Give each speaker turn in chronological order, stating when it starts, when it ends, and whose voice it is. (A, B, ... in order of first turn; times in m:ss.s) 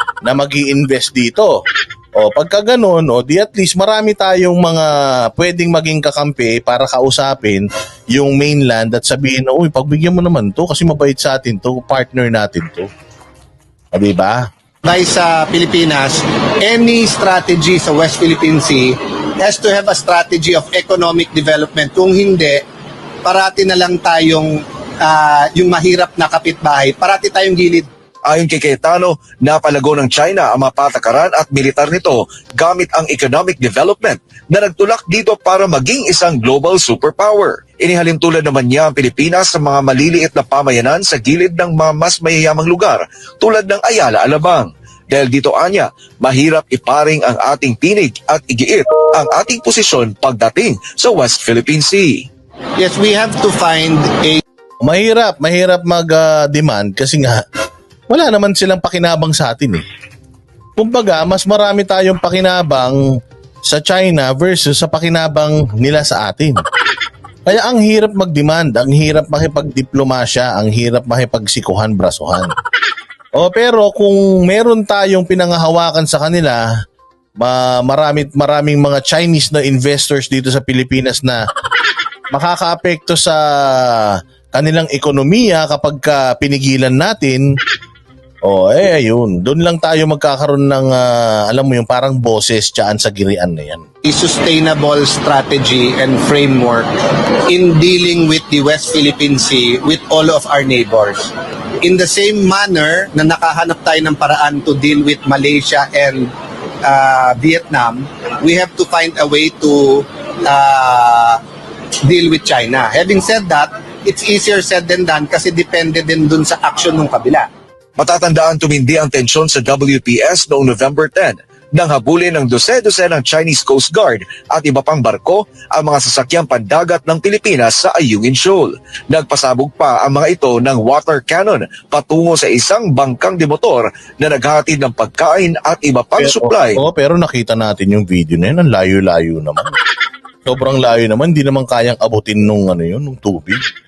0:00.2-0:01.6 A
0:02.2-0:12.9 A
0:13.9-0:14.4 A
0:14.8-0:22.6 B
0:23.2-0:27.9 B
0:28.3-0:52.3 C
0:52.8-0:54.4 B
0:54.8-0:57.4 A
0:58.1-0:59.8 A
1:00.8-1:03.0 A
1:03.7-1:06.6 A
1:07.4-1:12.5 A
1:13.4-1:16.6 A
1:17.4-1:21.4 A
1:22.3-1:27.4 A
1:28.4-1:33.8 A
1:34.0-1:36.9 B
1:37.5-1:41.3 B
1:41.8-1:46.3 B
1:46.8-1:51.4 B
1:52.0-1:57.5 B
1:58.0-2:16.8 C
2:16.2-2:19.7 A
2:20.4-2:23.6 A